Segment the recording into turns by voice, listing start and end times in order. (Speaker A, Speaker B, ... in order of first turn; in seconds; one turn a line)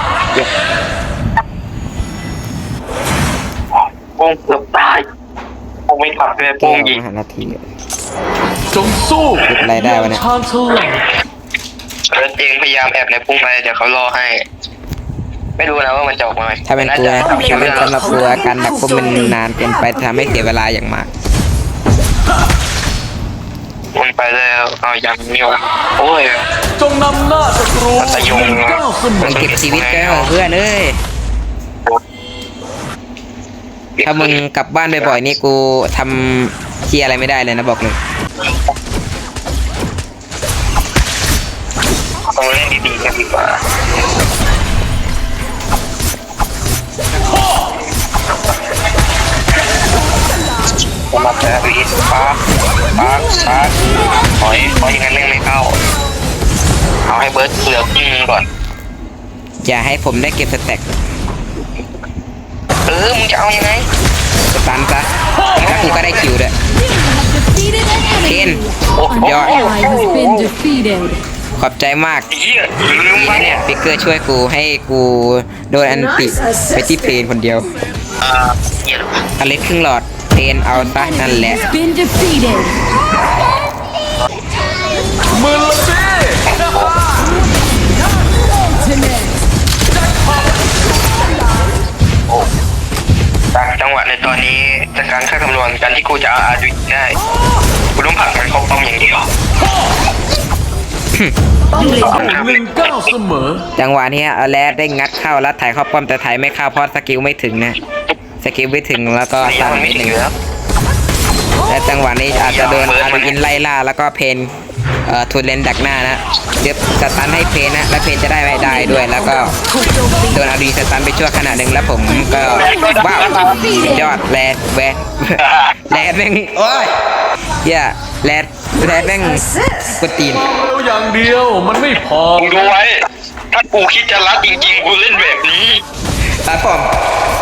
Speaker A: 4.2-5.0
Speaker A: 5.9-7.0
Speaker B: 6.6-7.6
Speaker C: 8.7-11.0
Speaker B: 9.4-10.2
Speaker A: 12.1-14.4
Speaker A: 15.6-18.0
Speaker B: 16.7-21.1
Speaker D: 17.2-20.3
Speaker A: 23.9-26.5
Speaker C: 26.8-29.2
Speaker A: 27.9-30.3
Speaker B: 29.2-31.0
Speaker A: 34.0-34.4
Speaker B: 34.0-38.0
Speaker A: 42.3-43.6
Speaker A: 51.1-52.4
Speaker A: 53.0-53.8
Speaker A: 54.3-55.8
Speaker A: 57.1-58.4
Speaker B: 59.6-60.9
Speaker A: 62.9-63.9
Speaker B: 64.5-66.5
Speaker A: 65.5-66.3
Speaker E: 66.9-68.7
Speaker B: 68.2-68.6
Speaker A: 69.0-70.5
Speaker B: 69.2-69.5
Speaker E: 69.2-71.2
Speaker B: 71.6-72.3
Speaker A: 72.3-73.6
Speaker B: 73.2-77.7
Speaker B: 79.4-81.7
Speaker E: 81.4-82.7
Speaker C: 85.3-86.5
Speaker A: 86.5-87.0
Speaker A: 93.5-97.2
Speaker A: 98.0-99.3
Speaker D: 101.7-102.3
Speaker A: 101.8-103.1
Speaker C: 102.0-103.6
Speaker B: 103.8-107.8
Speaker B: 108.4-110.2
Speaker A: 109.4-110.3
Speaker B: 111.7-114.5
Speaker A: 112.3-113.4
Speaker B: 115.1-119.5
Speaker D: 118.7-120.4
Speaker B: 120.3-126.9
Speaker A: 122.4-123.8
Speaker E: 122.6-124.2
Speaker A: 125.5-125.7
Speaker B: 127.6-130.5
Speaker C: 130.5-132.6
Speaker A: 132.3-135.8
Speaker B: 136.4-136.9